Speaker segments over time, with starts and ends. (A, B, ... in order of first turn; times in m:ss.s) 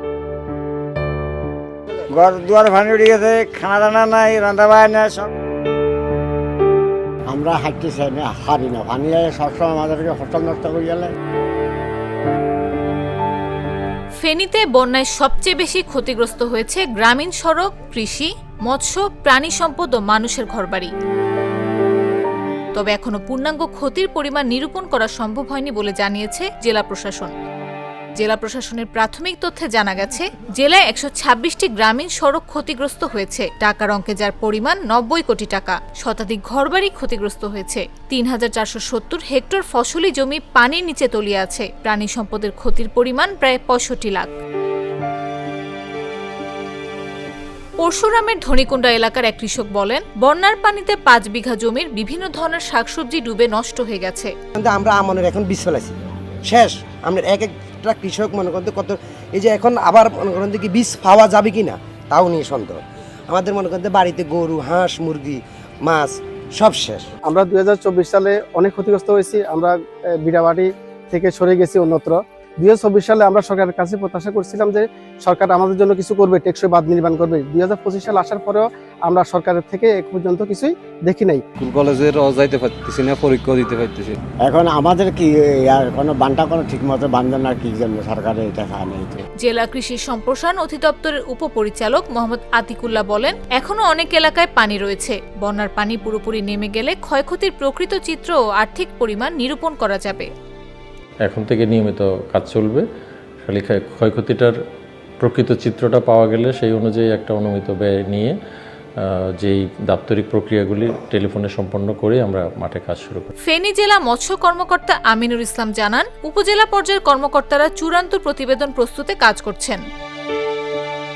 0:02.2-0:05.2 A
0:07.3-0:11.1 B
0:14.2-0:20.9 C
0:22.7-0:27.3 C
0:28.2-0:44.3 C
0:47.8-0:54.3 C
0:54.6-1:07.1 D
1:07.2-1:21.4 E
1:21.6-1:24.2 F
1:24.4-1:29.2 B
1:29.4-1:40.3 C
1:41.2-1:42.8 G
1:43.4-1:44.5 G
1:45.2-1:48.3 G
1:49.0-1:53.3 G
1:53.4-1:59.8 C